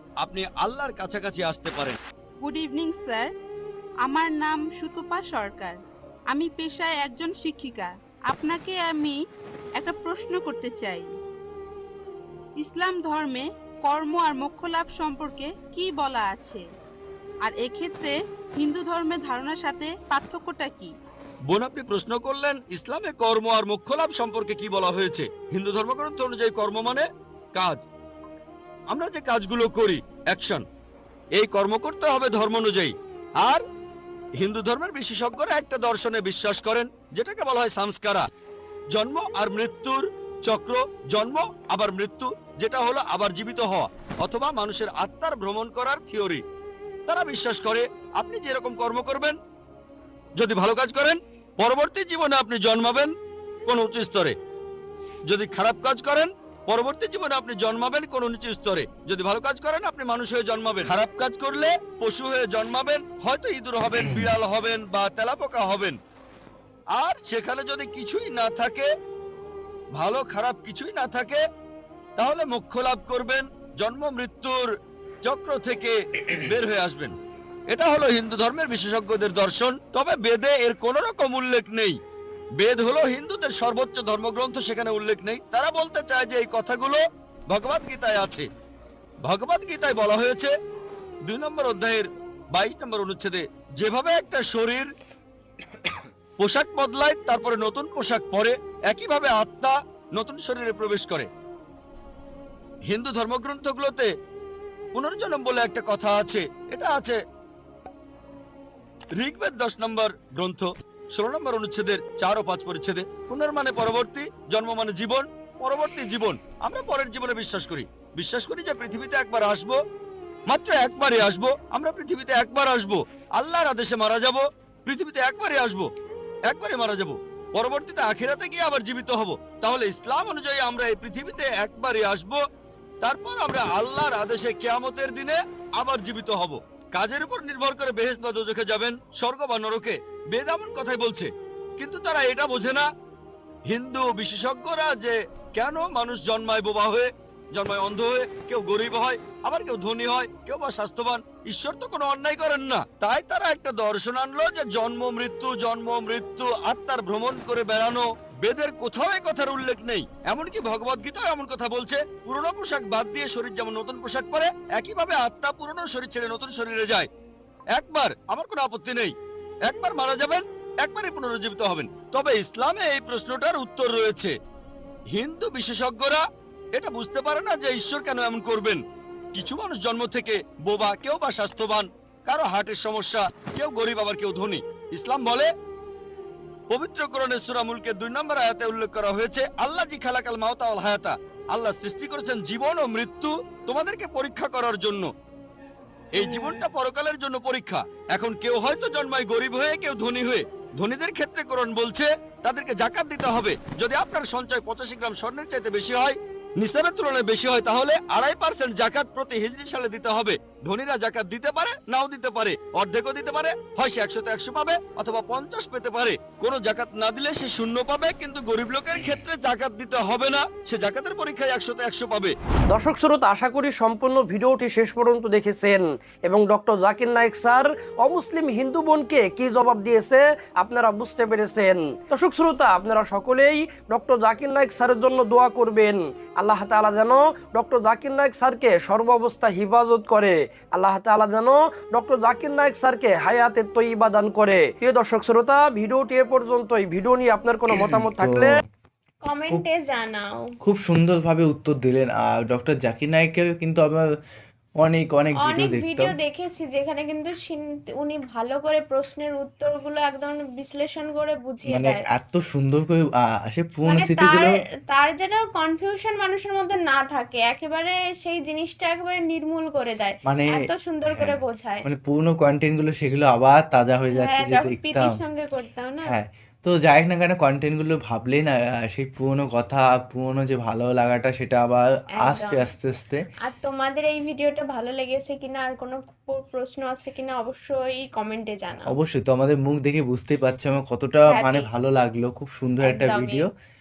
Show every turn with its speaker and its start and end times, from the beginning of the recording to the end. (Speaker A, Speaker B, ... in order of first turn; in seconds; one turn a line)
Speaker A: 0.2-2.0
Speaker B: 2.4-3.3
Speaker B: 4.0-5.8
Speaker B: 6.3-9.2
Speaker B: 9.8-11.1
Speaker B: 12.6-16.6
Speaker B: 17.4-20.9
Speaker A: 21.5-27.9
Speaker A: 28.9-30.6
Speaker A: 31.4-33.6
Speaker A: 34.4-38.2
Speaker A: 38.9-46.4
Speaker A: 47.1-49.4
Speaker A: 50.4-53.1
Speaker A: 53.6-54.3
Speaker A: 55.3-66.0
Speaker A: 66.9-68.9
Speaker A: 69.9-71.4
Speaker A: 72.2-74.7
Speaker A: 75.2-77.1
Speaker A: 77.7-82.0
Speaker A: 82.6-88.5
Speaker A: 89.2-90.5
Speaker A: 91.2-94.9
Speaker A: 96.4-101.3
Speaker A: 102.9-104.1
Speaker A: 104.9-107.2
Speaker A: 109.2-119.8
Speaker A: 120.5-125.9
Speaker A: 126.5-132.4
Speaker A: 133.0-142.9
Speaker A: 143.7-167.1
Speaker A: 167.7-169.1
Speaker A: 169.7-174.3
Speaker A: 175.1-178.8
Speaker A: 179.3-185.5
Speaker A: 186.7-195.1
Speaker A: 196.1-222.3
Speaker C: 222.7-248.6
Speaker D: 247.8-248.6
Speaker E: 249.2-250.5
Speaker D: 250.6-254.1
Speaker D: 254.8-256.1
Speaker E: 255.4-262.0
Speaker D: 261.7-264.6
Speaker E: 263.9-271.8
Speaker D: 270.2-270.6
Speaker D: 271.1-275.2
Speaker E: 274.1-276.1
Speaker D: 276.0-283.2
Speaker E: 282.2-282.7
Speaker E: 283.4-288.9
Speaker D: 288.9-293.5
Speaker E: 291.3-291.7
Speaker E: 292.8-293.4